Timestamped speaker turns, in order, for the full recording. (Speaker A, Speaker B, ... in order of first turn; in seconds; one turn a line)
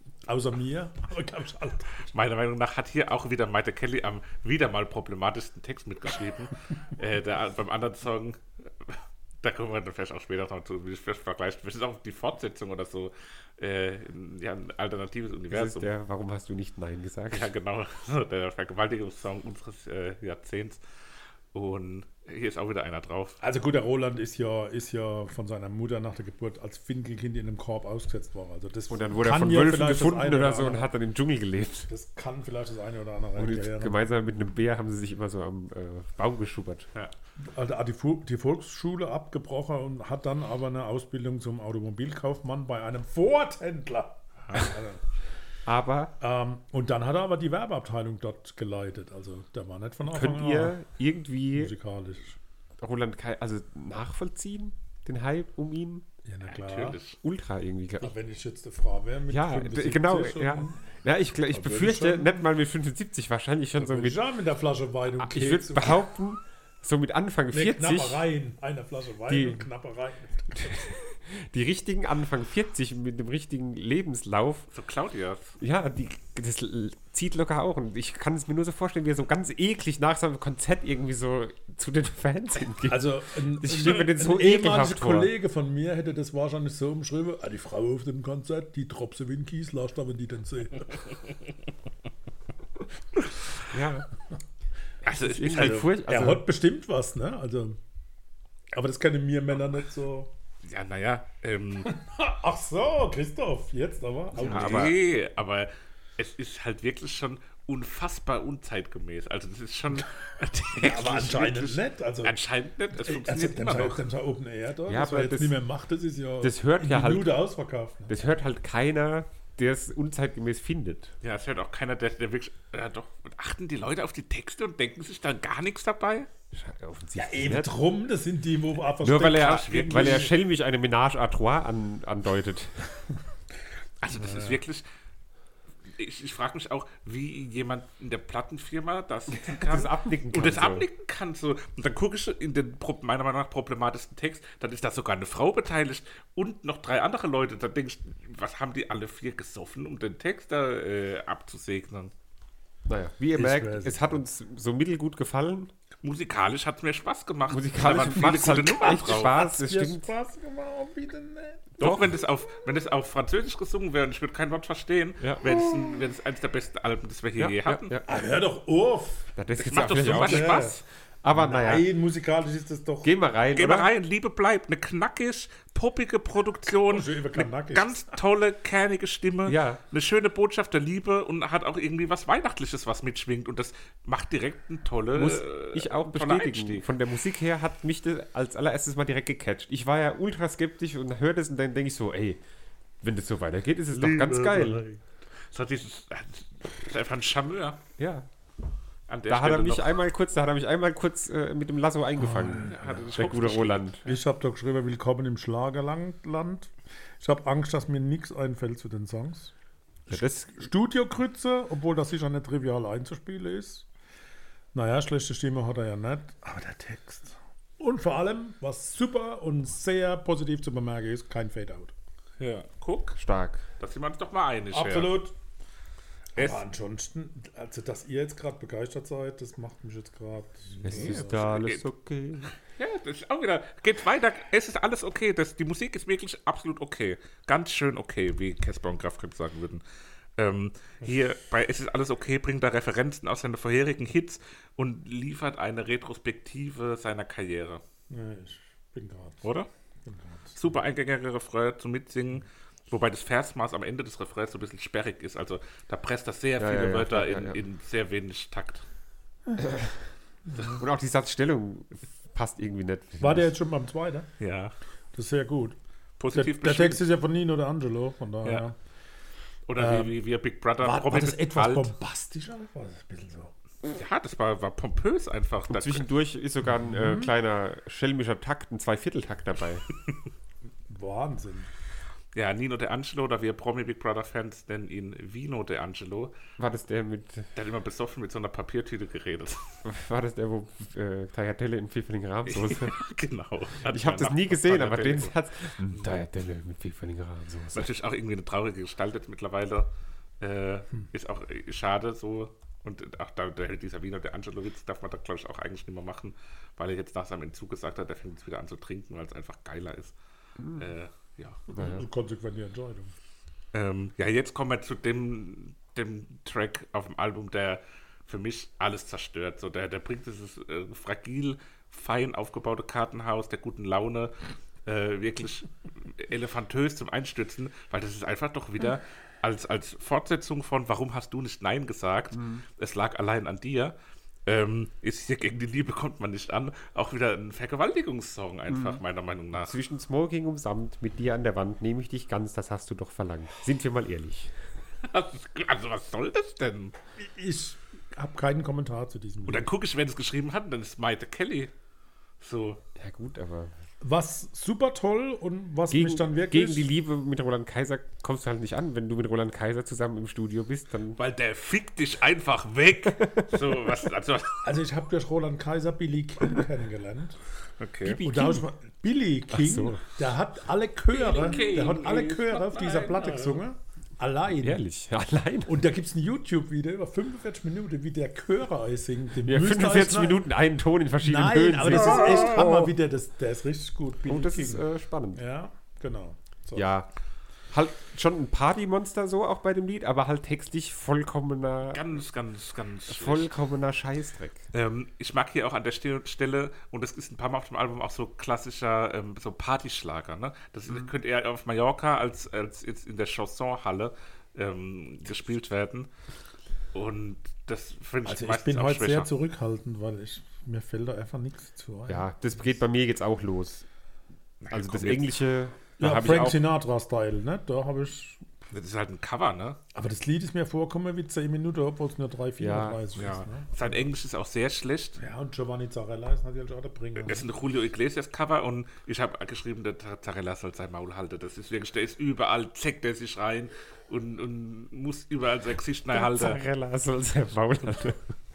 Speaker A: 0.2-2.1
Speaker B: 2.1-15.9
Speaker C: 15.5-17.5
Speaker B: 17.3-20.8
Speaker B: 21.5-23.4
Speaker A: 23.4-30.9
Speaker C: 28.9-31.9
Speaker A: 31.9-34.0
Speaker C: 33.4-36.9
Speaker A: 37.5-45.0
Speaker C: 45.6-46.1
Speaker A: 46.2-50.8
Speaker C: 50.1-51.7
Speaker A: 51.5-52.4
Speaker C: 52.8-56.0
Speaker A: 56.2-57.0
Speaker B: 56.5-57.2
Speaker C: 57.2-58.1
Speaker A: 58.0-60.9
Speaker C: 59.3-64.2
Speaker A: 61.5-62.5
Speaker A: 63.8-66.0
Speaker C: 65.2-68.2
Speaker A: 67.5-70.9
Speaker C: 69.3-69.7
Speaker C: 70.5-74.7
Speaker B: 74.7-75.5
Speaker C: 75.6-85.3
Speaker A: 82.9-91.0
Speaker C: 93.7-94.1
Speaker B: 95.0-95.9
Speaker C: 95.1-96.4
Speaker A: 95.4-97.8
Speaker A: 98.7-100.3
Speaker B: 100.6-101.9
Speaker A: 101.8-104.9
Speaker C: 104.4-105.0
Speaker B: 104.4-114.0
Speaker A: 110.8-112.4
Speaker A: 113.0-118.1
Speaker C: 114.9-115.6
Speaker C: 116.4-117.4
Speaker C: 118.1-121.1
Speaker B: 121.2-126.3
Speaker C: 126.5-127.7
Speaker A: 127.2-130.3
Speaker C: 129.0-132.8
Speaker B: 129.1-130.3
Speaker B: 134.0-134.8
Speaker A: 134.1-134.6
Speaker B: 135.9-152.1
Speaker C: 139.3-140.9
Speaker C: 152.9-155.7
Speaker A: 153.3-154.2
Speaker B: 156.0-159.3
Speaker C: 157.5-160.1
Speaker A: 158.2-161.7
Speaker B: 161.8-167.9
Speaker C: 161.8-162.1
Speaker C: 165.2-165.9
Speaker C: 167.4-168.1
Speaker A: 168.1-169.3
Speaker C: 169.3-171.8
Speaker B: 169.6-170.8
Speaker A: 169.9-170.8
Speaker A: 171.3-173.1
Speaker C: 173.0-173.9
Speaker B: 173.6-186.8
Speaker A: 176.9-178.1
Speaker C: 179.4-179.8
Speaker C: 185.1-192.4
Speaker C: 193.0-194.8
Speaker B: 193.9-195.0
Speaker B: 195.5-197.8
Speaker C: 198.0-198.3
Speaker B: 199.1-199.9
Speaker C: 199.3-204.1
Speaker A: 202.2-202.9
Speaker B: 202.5-203.9
Speaker A: 204.0-209.5
Speaker C: 210.1-210.7
Speaker A: 210.1-213.8
Speaker A: 214.7-221.9
Speaker B: 222.4-223.2
Speaker C: 223.2-223.6
Speaker B: 223.8-225.2
Speaker A: 224.7-225.3
Speaker B: 226.3-226.6
Speaker A: 226.3-231.4
Speaker B: 230.8-231.8
Speaker C: 230.8-232.5
Speaker B: 232.8-239.8
Speaker B: 240.4-247.8
Speaker A: 248.1-249.4
Speaker B: 249.4-249.7
Speaker A: 250.1-250.6
Speaker B: 250.6-258.8
Speaker C: 256.6-257.6
Speaker C: 259.6-260.0
Speaker A: 260.5-260.8
Speaker C: 260.6-263.5
Speaker A: 263.2-264.3
Speaker B: 264.4-264.7
Speaker A: 265.1-265.8
Speaker B: 266.2-267.0
Speaker A: 266.3-268.7
Speaker B: 269.7-271.9
Speaker A: 269.8-270.1
Speaker A: 270.8-273.5
Speaker B: 273.8-276.1
Speaker C: 275.7-279.8
Speaker A: 276.7-277.3
Speaker A: 280.9-281.7
Speaker B: 282.3-286.3
Speaker C: 286.6-287.5
Speaker B: 287.5-289.6
Speaker C: 289.8-293.0
Speaker B: 292.5-295.3
Speaker C: 293.9-297.9
Speaker B: 295.9-296.2
Speaker B: 297.7-299.9
Speaker B: 300.4-310.1
Speaker C: 310.6-310.9
Speaker B: 310.8-311.7
Speaker A: 311.7-313.1
Speaker C: 311.8-312.0
Speaker B: 313.7-333.9
Speaker C: 332.3-332.6
Speaker B: 334.5-339.8
Speaker C: 338.7-339.0
Speaker C: 339.6-344.5
Speaker B: 345.0-346.9
Speaker A: 347.2-349.7
Speaker B: 349.5-351.7
Speaker B: 352.4-352.8
Speaker C: 352.9-353.7
Speaker A: 354.0-356.9
Speaker C: 355.9-361.2
Speaker B: 361.2-364.6
Speaker C: 363.2-363.7
Speaker A: 364.6-367.4
Speaker B: 367.8-368.2
Speaker C: 368.0-368.6
Speaker A: 368.2-374.8
Speaker C: 369.5-370.0
Speaker B: 371.1-373.6
Speaker C: 374.6-375.8
Speaker A: 375.6-380.4
Speaker C: 379.4-382.9
Speaker A: 381.2-386.9
Speaker C: 384.3-385.4
Speaker C: 386.7-387.1
Speaker C: 387.7-392.0
Speaker B: 391.9-393.5
Speaker C: 393.1-394.6
Speaker B: 394.7-406.1
Speaker B: 406.9-409.3
Speaker A: 408.2-412.3
Speaker C: 412.1-413.8
Speaker B: 414.6-415.4
Speaker C: 414.7-416.6
Speaker A: 416.0-418.4
Speaker B: 418.7-419.8
Speaker A: 419.9-424.1
Speaker C: 422.6-423.0
Speaker B: 423.1-425.2
Speaker A: 425.2-427.5
Speaker B: 427.2-436.6
Speaker C: 436.1-438.2